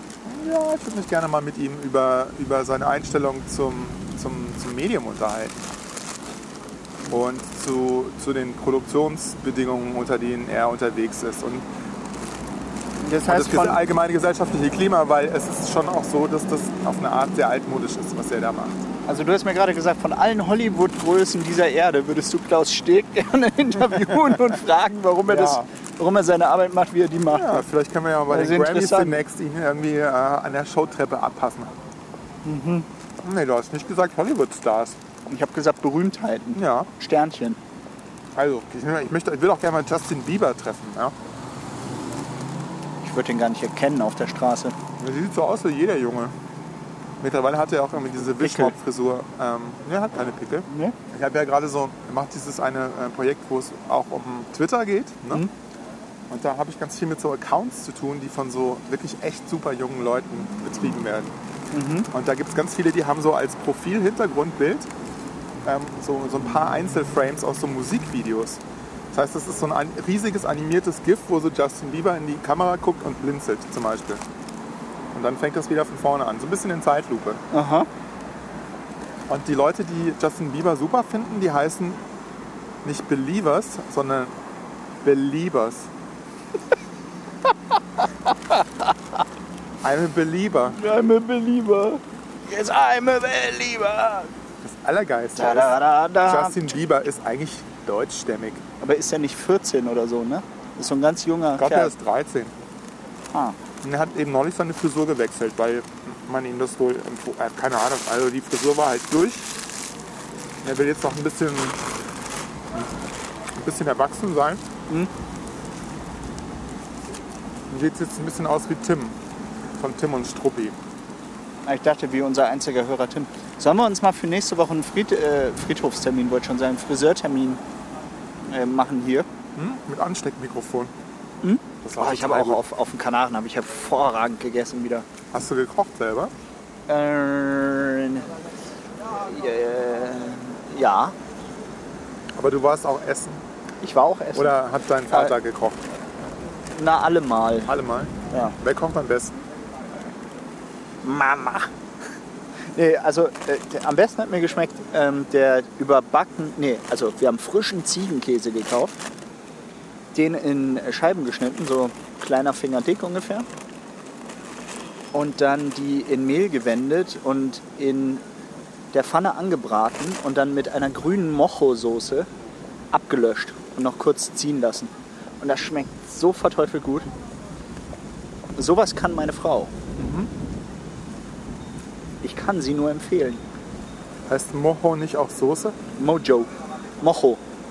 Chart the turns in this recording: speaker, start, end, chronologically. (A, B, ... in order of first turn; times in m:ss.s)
0:00.2-0:05.6 A
0:07.1-0:11.6 A
0:13.0-0:13.8 B
0:13.3-0:18.8 A
0:19.1-0:27.6 B
0:25.3-0:25.7 A
0:27.3-0:31.7 A
0:28.3-0:29.2 B
0:32.4-0:32.9 B
0:33.2-0:35.0 A
0:35.3-0:37.6 B
0:36.5-0:36.9 A
0:38.4-0:41.1 A
0:43.0-0:44.8 B
0:45.0-0:46.3 A
0:47.2-0:55.4 A
0:48.3-0:48.7 B
0:50.7-0:51.0 B
0:56.3-1:01.3 A
1:01.7-1:02.1 B
1:02.1-1:04.9 A
1:05.6-1:08.6 A
1:09.1-1:14.2 A
1:15.1-1:17.4 A
1:17.5-1:17.9 B
1:19.3-1:22.0 A
1:22.8-1:24.3 A
1:25.0-1:25.9 A
1:29.8-1:30.8 A
1:30.8-1:34.3 B
1:34.6-1:38.6 A
1:35.4-1:36.7 B
1:38.8-1:41.9 B
1:41.6-1:42.5 A
1:43.8-1:49.6 A
1:50.6-1:51.8 A
1:53.5-1:54.6 A
1:57.7-1:59.2 A
1:59.8-2:00.8 A
2:01.6-2:07.6 B
2:08.5-2:09.3 B
2:09.6-2:10.9 A
2:11.4-2:15.1 B
2:11.8-2:12.6 A
2:15.3-2:16.3 A
2:16.9-2:18.3 B
2:19.1-2:21.2 B
2:22.4-2:23.4 A
2:23.8-2:24.6 B
2:24.3-2:25.8 A
2:25.1-2:25.4 B
2:26.7-2:27.7 B
2:27.7-2:29.4 A
2:31.0-2:31.7 B
2:32.7-2:39.0 B
2:40.1-2:43.5 B
2:45.1-2:48.2 B
2:48.9-2:52.3 B
2:52.9-2:57.1 B
2:58.6-2:59.7 B
3:00.0-3:00.3 A
3:02.2-3:03.4 B
3:04.3-3:05.8 A
3:06.0-3:06.5 B
3:07.0-3:07.4 B